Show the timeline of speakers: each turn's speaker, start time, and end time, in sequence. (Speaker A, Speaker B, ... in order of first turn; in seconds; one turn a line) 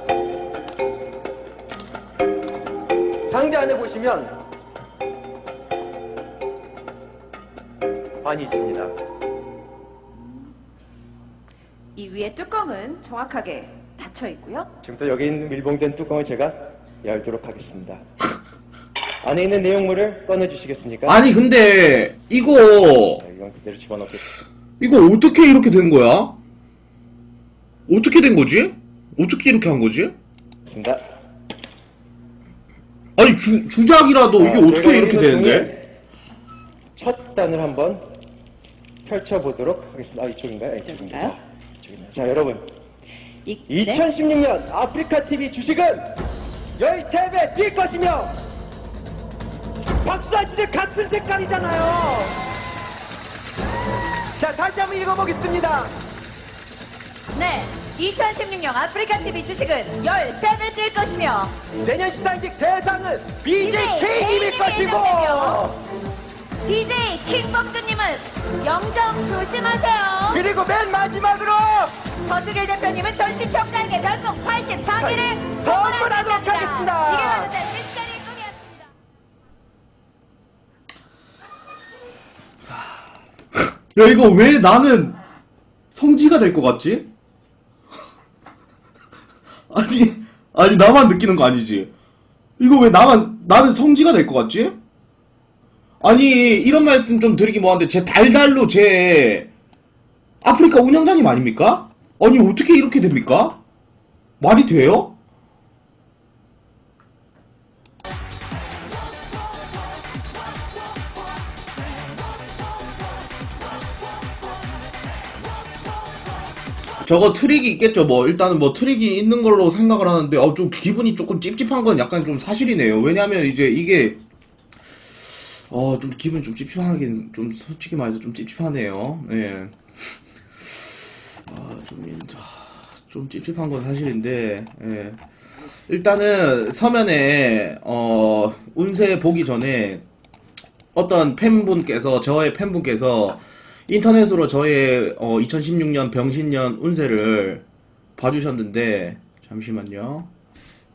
Speaker A: 3.3-4.4
Speaker A: 8.2-8.9
Speaker B: 12.0-14.7
Speaker A: 14.8-18.0
Speaker A: 19.2-21.2
Speaker C: 21.1-23.2
Speaker A: 23.2-24.4
Speaker C: 24.8-26.4
Speaker C: 27.9-30.1
Speaker A: 30.7-31.0
Speaker C: 33.2-35.7
Speaker A: 34.4-35.8
Speaker A: 37.0-38.0
Speaker A: 39.0-42.7
Speaker B: 40.9-41.4
Speaker B: 43.5-44.0
Speaker A: 43.7-46.2
Speaker A: 46.8-48.4
Speaker A: 50.0-52.4
Speaker A: 54.4-55.9
Speaker B: 57.3-61.6
Speaker A: 61.8-65.8
Speaker B: 63.6-65.7
Speaker B: 66.7-70.4
Speaker A: 70.3-72.0
Speaker B: 72.2-78.7
Speaker A: 75.0-77.6
Speaker C: 83.6-85.2
Speaker C: 85.9-87.1
Speaker C: 89.7-91.9
Speaker C: 92.6-94.8
Speaker C: 96.0-99.5
Speaker C: 100.4-103.6
Speaker C: 104.4-105.2
Speaker C: 117.0-124.2
Speaker C: 125.2-135.2
Speaker C: 135.9-140.1
Speaker C: 140.9-147.7
Speaker C: 148.2-150.3